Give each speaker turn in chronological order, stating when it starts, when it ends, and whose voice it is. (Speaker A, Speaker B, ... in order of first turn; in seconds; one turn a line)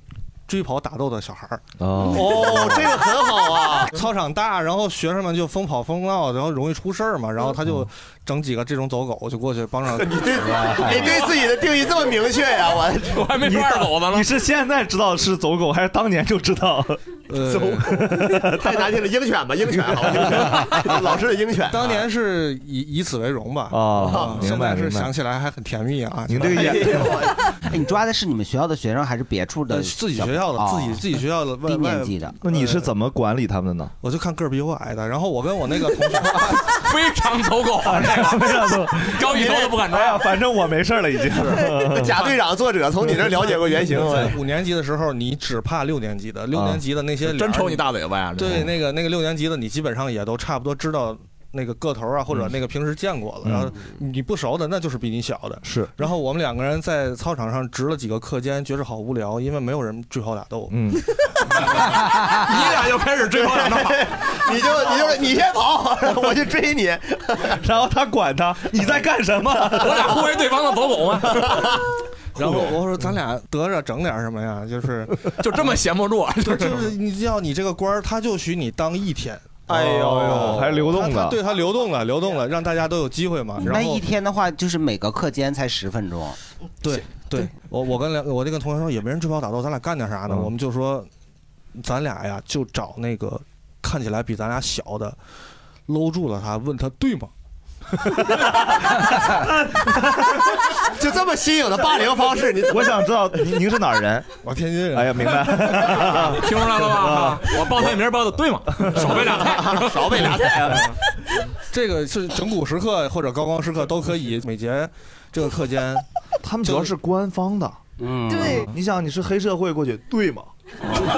Speaker A: 0.5-1.6
Speaker B: 1.8-2.9
Speaker C: 2.1-4.0
Speaker A: 3.9-10.3
Speaker C: 9.9-13.3
Speaker D: 10.6-11.2
Speaker E: 13.1-14.3
Speaker B: 13.4-17.0
Speaker A: 17.3-18.1
Speaker C: 17.4-22.1
Speaker B: 17.8-18.8
Speaker B: 20.2-20.6
Speaker A: 21.7-27.2
Speaker B: 23.7-25.1
Speaker C: 24.0-24.5
Speaker B: 26.3-27.2
Speaker C: 26.4-27.4
Speaker D: 27.7-31.1
Speaker A: 29.7-32.9
Speaker D: 31.6-32.4
Speaker B: 32.4-33.9
Speaker A: 34.0-36.6
Speaker E: 36.6-40.2
Speaker B: 37.9-39.3
Speaker C: 39.3-39.8
Speaker B: 39.9-42.1
Speaker C: 41.8-44.4
Speaker A: 43.9-47.9
Speaker B: 44.0-44.2
Speaker B: 46.5-46.8
Speaker E: 47.2-48.7
Speaker A: 48.4-60.8
Speaker B: 53.4-53.7
Speaker B: 55.6-55.9
Speaker B: 60.7-61.0
Speaker E: 61.7-64.1
Speaker C: 63.3-67.6
Speaker B: 67.6-70.2
Speaker E: 69.7-71.8
Speaker C: 71.4-71.8
Speaker A: 72.4-75.2
Speaker E: 75.4-76.9
Speaker A: 76.4-84.0
Speaker B: 79.7-81.4
Speaker D: 83.6-86.4
Speaker A: 86.8-91.1
Speaker A: 91.8-95.2
Speaker A: 95.9-97.3
Speaker B: 99.7-100.3
Speaker C: 100.8-103.0
Speaker B: 102.7-104.3
Speaker A: 104.4-106.3
Speaker B: 104.9-107.5
Speaker E: 106.3-110.5
Speaker C: 109.4-111.0
Speaker A: 111.7-116.0
Speaker B: 116.4-117.8
Speaker A: 116.6-116.9
Speaker D: 118.0-118.7
Speaker B: 118.4-120.5